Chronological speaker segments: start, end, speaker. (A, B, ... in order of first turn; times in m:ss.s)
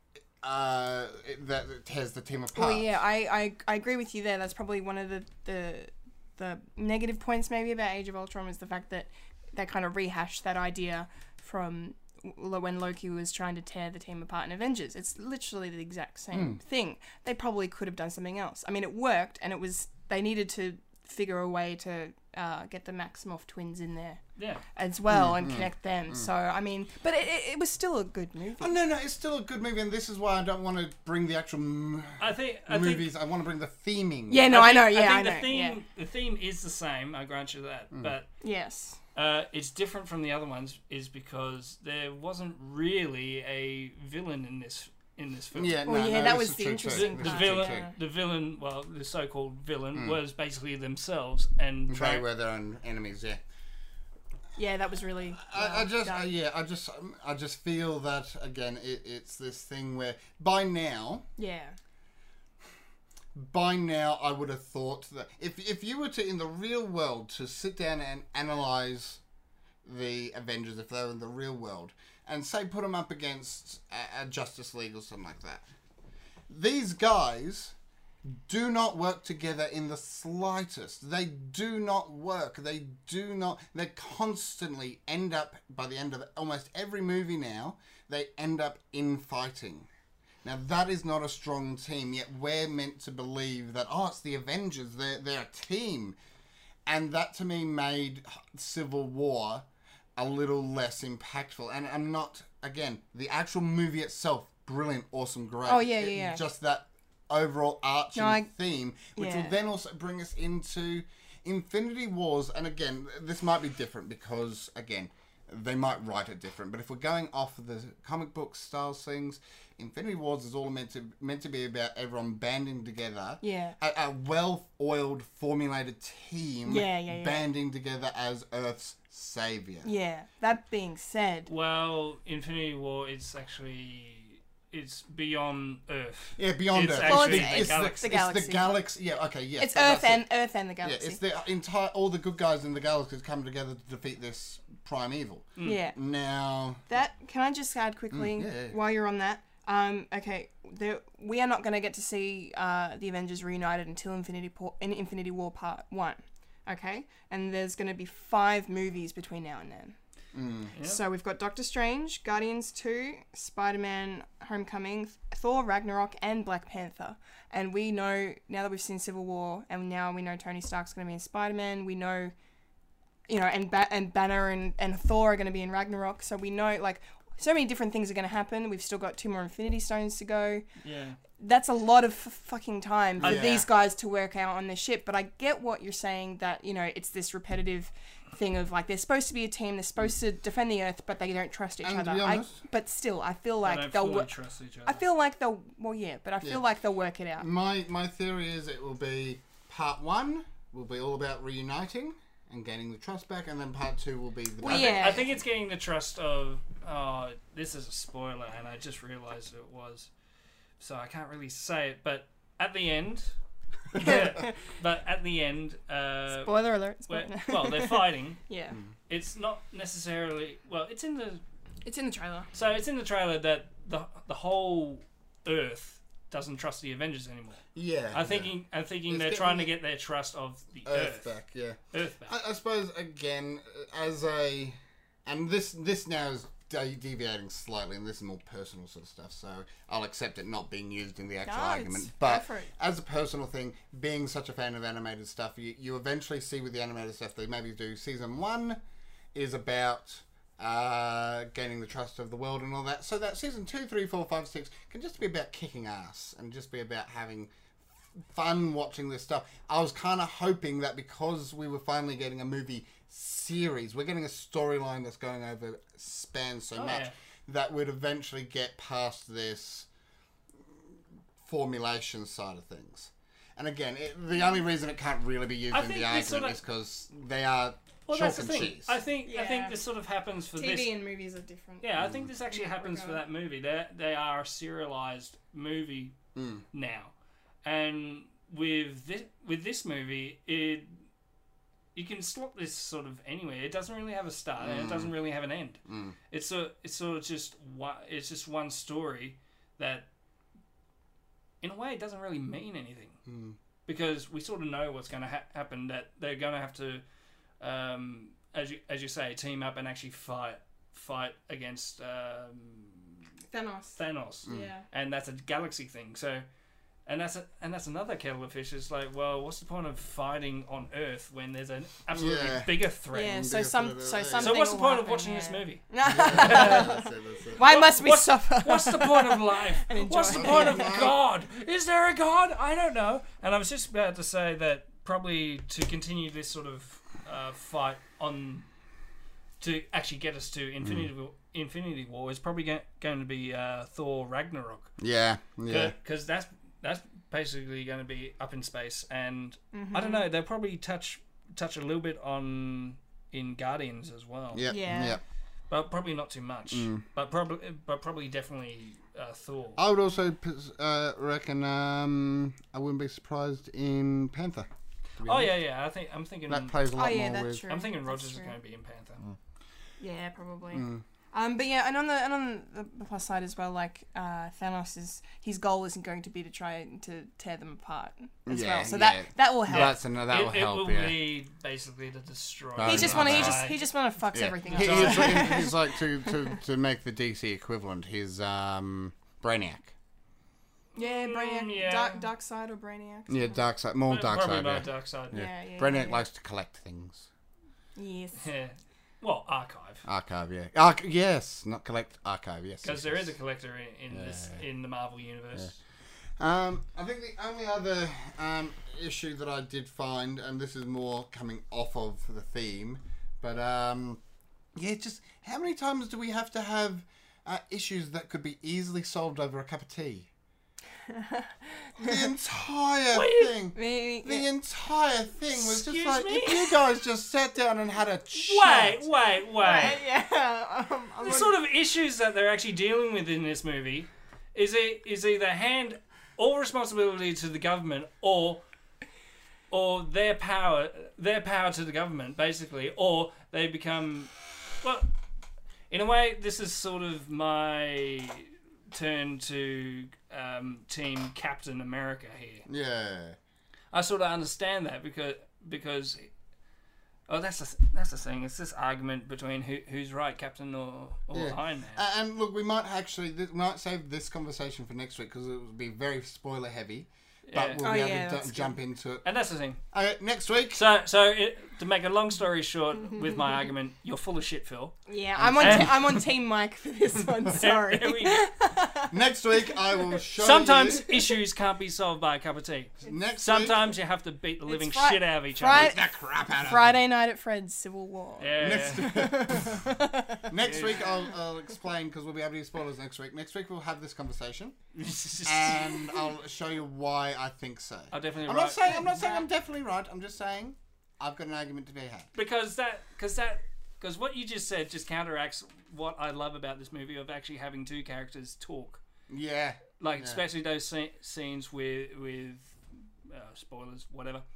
0:00.4-0:02.9 A
0:02.5-0:24.2 B
0:16.3-0:16.6 A
0:24.4-0:24.6 C
0:24.8-0:28.8 B
0:25.1-0:26.3 A
0:28.6-0:34.5 A
0:32.2-0:33.1 C
0:34.3-0:35.8 B
0:34.5-0:38.3 C
0:38.4-0:39.0 B
0:39.2-0:45.8 C
0:45.5-0:47.9 A
0:45.9-0:48.0 B
0:46.9-0:52.2 C
0:49.9-0:50.2 A
0:51.9-0:53.4 A
0:54.6-0:56.3 B
0:55.4-1:01.2 A
1:01.4-1:01.8 B
1:03.4-1:09.2 A
1:09.8-1:15.6 A
1:16.5-1:17.8 A
1:18.3-1:29.9 A
1:30.4-1:36.2 A
1:36.9-2:09.9 A
1:45.7-1:46.4 B
1:48.2-1:48.5 B
1:49.2-1:49.5 B
2:03.4-2:03.8 B
2:06.7-2:07.5 B
2:09.8-2:11.5 B
2:11.5-2:18.0 C
2:16.4-2:20.3 A
2:17.0-2:18.7 B
2:19.6-2:21.2 B
2:20.8-2:26.8 A
2:25.6-2:26.0 B
2:26.9-2:40.0 B
2:28.1-2:28.8 A
2:40.3-2:40.7 A
2:40.8-2:41.0 C
2:40.8-2:52.3 B
2:53.3-3:00.7 B
3:00.8-3:01.2 C
3:01.4-3:14.3 B
3:03.2-3:03.7 A
3:11.8-3:12.6 A
3:13.6-3:15.0 C
3:14.9-3:17.5 B
3:17.4-3:25.3 A
3:24.6-3:25.3 B
3:24.6-3:30.1 C
3:30.8-3:33.3 C
3:33.9-3:38.4 C
3:34.0-3:34.6 B
3:36.3-3:38.8 B
3:39.1-3:41.4 C
3:41.8-3:42.5 B
3:42.5-3:51.3 C
3:47.8-3:48.5 A
3:49.1-3:49.7 A
3:50.9-4:08.8 A
3:51.9-3:52.4 C
4:01.4-4:02.7 B
4:09.3-4:17.5 A
4:18.1-4:29.9 A
4:26.8-4:27.1 C
4:31.4-4:39.0 A
4:35.7-4:36.6 C
4:38.1-4:40.9 C
4:39.2-4:39.8 B
4:40.5-4:43.2 B
4:41.8-4:46.2 C
4:42.0-4:42.3 A
4:46.4-4:46.6 A
4:46.7-4:47.1 C
4:47.6-4:51.0 C
4:52.0-5:00.1 C
4:54.6-4:55.1 A
4:55.9-4:56.2 A
5:01.6-5:03.2 C
5:03.3-5:03.6 A
5:03.9-5:07.0 C
5:07.6-5:13.3 C
5:13.5-5:14.8 B
5:14.0-5:16.4 C
5:14.5-5:14.7 A
5:17.1-5:23.4 C
5:22.1-5:24.6 A
5:23.1-5:31.0 B
5:24.4-5:27.0 C
5:26.0-5:27.7 A
5:27.6-5:38.7 C
5:30.3-5:31.2 A
5:39.6-5:44.9 C
5:40.8-5:41.1 A
5:45.0-5:46.0 A
5:45.7-5:54.7 C
5:49.7-5:50.3 B
5:54.5-5:55.2 A
5:54.7-5:55.2 B
5:55.7-5:59.8 C
5:56.7-5:57.0 A
5:59.8-6:05.5 A
6:05.2-6:06.8 C
6:06.5-6:07.6 A
6:06.9-6:08.6 B
6:07.7-6:09.2 C
6:10.0-6:20.0 B
6:10.7-6:11.0 A
6:18.5-6:21.2 A
6:19.7-6:23.8 C
6:22.8-6:23.7 A
6:22.8-6:26.6 B
6:24.3-6:30.0 A
6:24.6-6:25.7 C
6:31.0-6:32.3 C
6:31.0-6:33.6 B
6:33.3-6:37.3 A
6:34.1-6:35.5 C
6:35.3-6:36.2 B
6:38.0-6:38.5 B
6:38.4-6:40.0 C
6:40.1-6:43.3 A
6:42.8-6:45.8 C
6:44.1-6:44.6 A
6:46.4-6:54.2 A
6:54.8-7:00.3 A
7:01.1-7:02.2 B
7:02.0-7:09.1 A
7:03.1-7:03.6 C
7:03.8-7:04.5 B
7:05.5-7:06.8 C
7:08.3-7:10.0 C
7:09.6-7:11.6 B
7:11.2-7:18.6 C
7:19.7-7:25.1 C
7:25.9-7:32.7 C
7:32.7-7:33.4 A
7:33.9-7:36.3 C
7:37.3-7:42.0 C
7:41.3-7:49.2 A
7:47.5-7:47.9 C
7:47.8-7:48.8 B
7:49.2-7:49.8 C
7:49.9-7:50.8 A
7:50.7-7:55.0 C
7:55.1-8:00.2 B
7:55.4-7:56.1 A
7:55.6-7:56.2 C
7:57.4-7:58.5 C
7:59.1-8:01.1 A
8:00.4-8:06.0 C
8:03.0-8:03.9 A
8:04.7-8:06.0 B
8:05.6-8:07.0 A
8:06.5-8:10.5 B
8:08.4-8:09.3 C
8:08.6-8:09.9 A
8:10.5-8:14.8 A
8:10.6-8:11.1 C
8:14.9-8:16.2 C
8:15.4-8:22.3 A
8:18.1-8:19.0 C
8:18.9-8:19.4 B
8:22.4-8:29.0 C
8:29.3-8:30.4 A
8:30.0-8:34.4 C